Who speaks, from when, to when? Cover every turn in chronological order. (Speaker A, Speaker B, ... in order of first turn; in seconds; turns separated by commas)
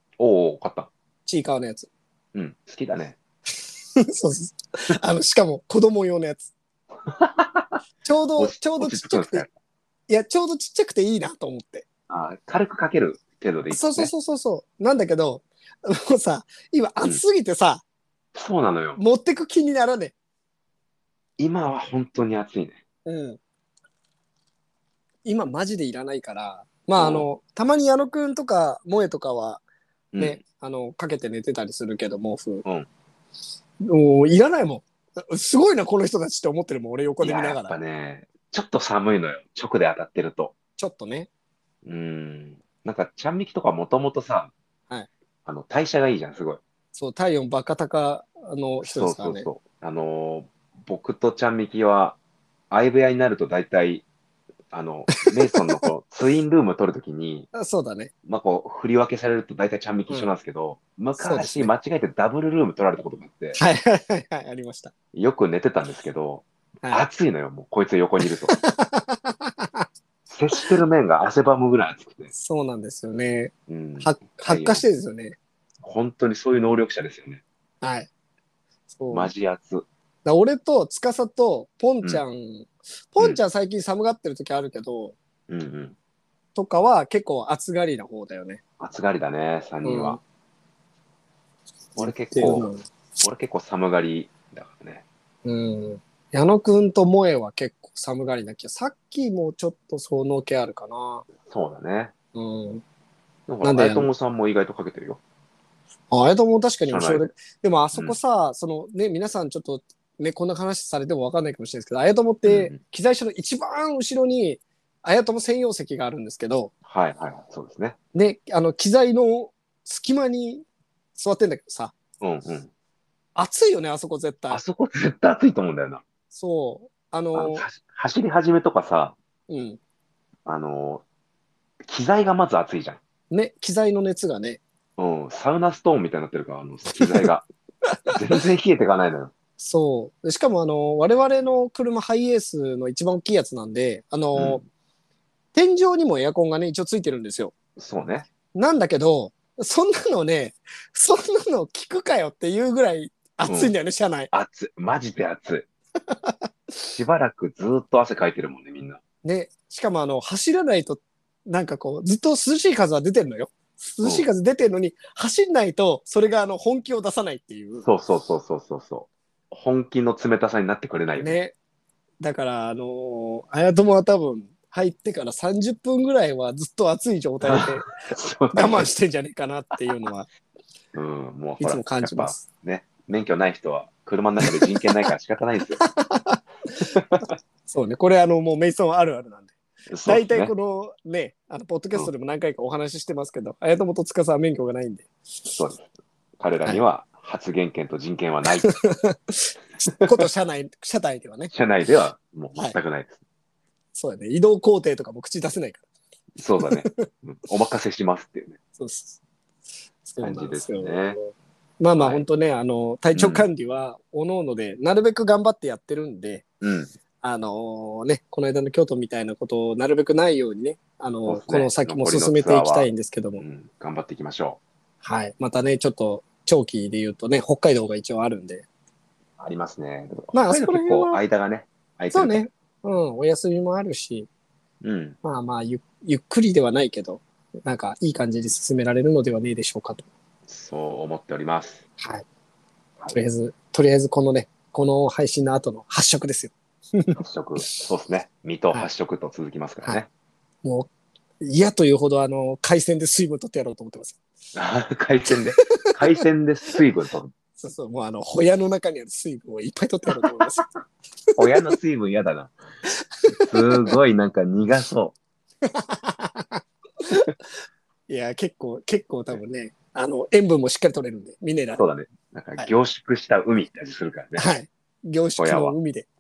Speaker A: 0.2-0.9, Speaker B: 1.3-1.9, Speaker A: 2.3-3.2, Speaker B: 4.0-6.5, Speaker A: 7.1-7.8, Speaker B: 8.0-9.5, Speaker A: 8.4-9.5, Speaker B: 10.1-11.9, Speaker A: 12.1-14.1, Speaker B: 13.7-17.8, Speaker A: 18.3-19.0, Speaker B: 19.0-20.1, Speaker A: 21.4-22.8, Speaker B: 23.1-23.4, Speaker B: 25.2-29.6, Speaker A: 27.0-27.3, Speaker A: 30.1-30.4, Speaker B: 30.2-32.6, Speaker B: 33.8-37.8, Speaker A: 37.2-40.5, Speaker B: 40.8-41.3, Speaker A: 41.9-44.5, Speaker A: 45.5-46.6, Speaker B: 47.0-49.5, Speaker A: 48.8-52.2, Speaker A: 52.7-54.0, Speaker A: 54.7-57.5, Speaker B: 55.1-55.8, Speaker B: 57.5-58.1, Speaker A: 58.2-63.6, Speaker B: 61.2-61.7, Speaker B: 63.6-64.9, Speaker A: 65.1-68.6, Speaker B: 68.2-69.9, Speaker A: 70.3-72.3, Speaker B: 72.3-75.4, Speaker A: 73.7-74.8, Speaker A: 75.8-77.4, Speaker B: 77.8-78.1, Speaker B: 78.9-79.3, Speaker A: 79.1-79.9, Speaker B: 80.2-85.2, Speaker A: 85.5-86.0, Speaker B: 86.5-88.6, Speaker A: 88.8-90.2, Speaker B: 89.8-90.2, Speaker B: 92.0-92.8, Speaker A: 92.0-95.0, Speaker B: 95.5-101.2, Speaker A: 101.5-102.1, Speaker B: 102.3-102.8, Speaker A: 103.5-105.2, Speaker B: 103.6-104.1, Speaker B: 106.1-116.7, Speaker A: 106.9-107.3, Speaker A: 112.5-112.8, Speaker A: 116.9-118.0, Speaker B: 118.1-120.7, Speaker B: 121.2-122.0, Speaker A: 122.2-122.7, Speaker B: 123.4-124.6, Speaker A: 124.5-126.0, Speaker B: 126.3-127.7, Speaker A: 127.3-129.2, Speaker B: 129.5-129.8, Speaker A: 130.5-131.0, Speaker A: 131.9-133.0, Speaker B: 133.3-134.6, Speaker A: 135.0-137.5, Speaker B: 136.9-137.3, Speaker A: 138.1-139.3, Speaker B: 139.6-144.6, Speaker A: 144.3-144.6, Speaker B: 145.5-147.5, Speaker A: 147.8-148.3, Speaker B: 148.6-154.3, Speaker A: 153.4-153.8, Speaker A: 154.3-155.7, Speaker B: 156.1-156.4, Speaker A: 156.8-159.0, Speaker B: 159.2-167.9, Speaker A: 167.8-171.4, Speaker B: 171.2-171.5, Speaker B: 172.2-180.3, Speaker A: 177.4-178.9, Speaker A: 180.9-185.8, Speaker B: 181.6-182.4, Speaker B: 185.8-187.0, Speaker A: 186.9-187.2, Speaker B: 187.7-189.5, Speaker A: 189.9-190.5, Speaker B: 190.1-195.6, Speaker A: 195.6-195.9, Speaker A: 196.4-198.7, Speaker B: 198.6-201.5, Speaker A: 200.0-200.2, Speaker A: 201.5-203.2, Speaker B: 203.9-205.8, Speaker A: 206.4-208.6, Speaker B: 206.6-206.9, Speaker B: 208.8-209.2, Speaker B: 210.0-216.4, Speaker A: 210.2-211.2, Speaker A: 212.0-212.2, Speaker A: 213.1-213.5, Speaker A: 216.6-216.9, Speaker B: 217.2-223.4, Speaker A: 221.3-224.6, Speaker B: 225.0-228.7, Speaker A: 229.4-232.5, Speaker B: 230.3-231.2, Speaker B: 232.1-234.3, Speaker A: 234.8-235.2, Speaker B: 235.2-240.1, Speaker A: 240.5-241.8, Speaker B: 242.0-242.2, Speaker B: 243.1-247.7, Speaker A: 247.2-250.1, Speaker B: 250.6-250.9, Speaker B: 251.4-254.2, Speaker A: 254.5-257.3, Speaker B: 255.3-256.2, Speaker B: 257.6-260.6, Speaker A: 261.4-262.5, Speaker B: 261.4-261.7, Speaker B: 262.9-263.9, Speaker A: 263.3-265.2, Speaker B: 265.6-267.3, Speaker B: 268.1-271.8, Speaker A: 271.7-274.5, Speaker B: 274.4-276.1, Speaker A: 275.4-275.8